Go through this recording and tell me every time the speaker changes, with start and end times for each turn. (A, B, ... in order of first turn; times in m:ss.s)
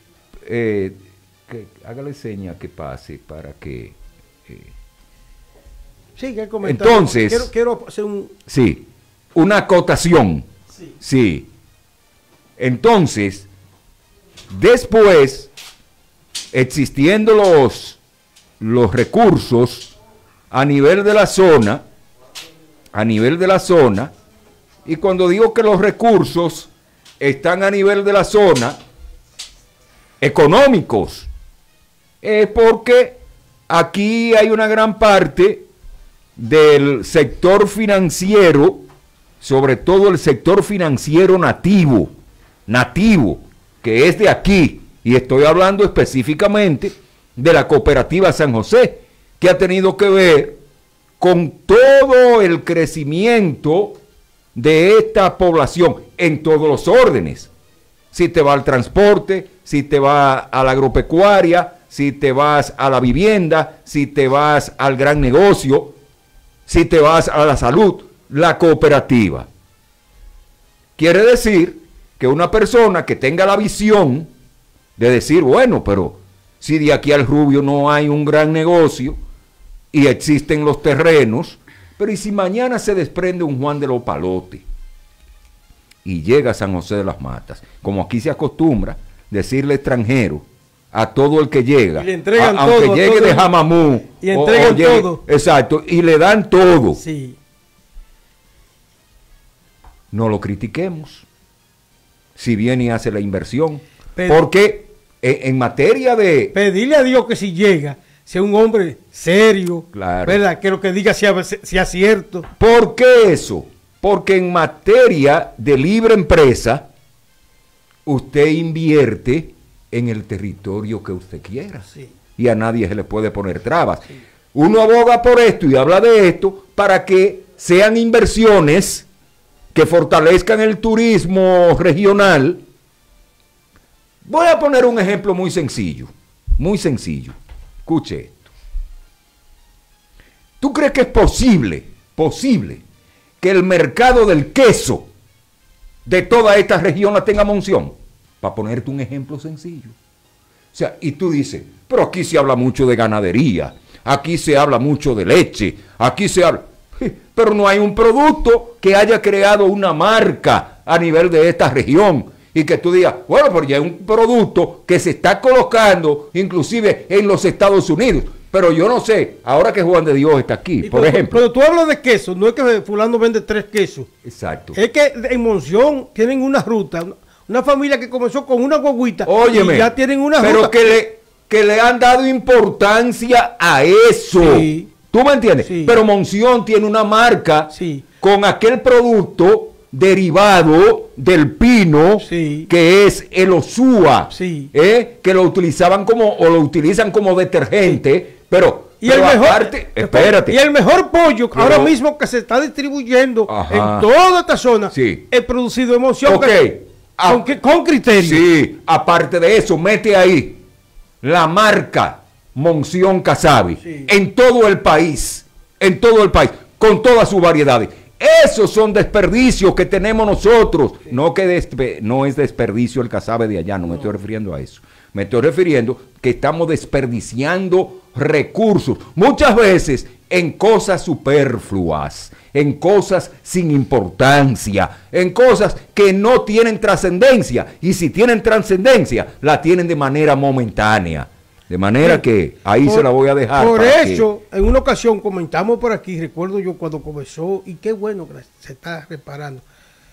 0:00.4-0:04.7 A
0:06.2-0:08.3 B
0:06.6-0:07.5 A
0:08.5-0:10.5 A
0:11.0-0:11.5 A
0:12.6-0:13.5 A
0:14.5-0:15.5 A
0:16.5-0:18.0 A
0:18.6-0:19.9 A
0:20.5-0:21.8 A
0:22.9-0:24.1 A
0:24.8-0:28.8 A
0:30.2-0:31.3 A
0:32.2-0:35.7 A
0:36.4-0:38.9 A
0:39.4-0:42.2 A
0:42.7-0:50.6 A
0:51.2-0:54.0 A
0:54.6-0:57.5 A
0:58.1-1:06.0 A
1:06.7-1:09.5 A
1:11.0-1:14.3 A
1:15.0-1:19.2 A
1:19.9-1:24.6 A
1:26.0-1:37.0 A
1:32.0-1:33.5 B
1:34.2-1:35.2 B
1:37.0-1:37.4 B
1:40.1-1:41.3 A
1:42.4-1:46.6 A
1:44.2-1:44.4 B
1:46.5-1:52.5 B
1:49.9-1:50.4 A
1:52.6-1:56.9 A
1:58.1-2:09.1 A
2:09.7-2:12.6 A
2:14.2-2:18.5 A
2:20.6-2:22.8 A
2:23.4-2:25.1 A
2:26.1-2:30.0 A
2:30.7-2:51.4 A
2:50.8-2:54.1 B
2:54.2-2:54.8 A
2:54.8-3:01.0 B
2:59.2-3:20.6 A
3:04.4-3:04.9 B
3:05.6-3:06.0 B
3:07.7-3:08.0 B
3:12.2-3:12.7 B
3:14.3-3:14.7 B
3:19.0-3:26.7 B
3:21.5-3:21.9 A
3:23.5-3:24.1 A
3:24.9-3:25.2 A
3:26.2-3:27.5 A
3:27.3-3:28.5 B
3:28.2-3:30.6 A
3:31.2-4:04.3 A
3:33.8-3:34.1 B
4:02.8-4:09.6 B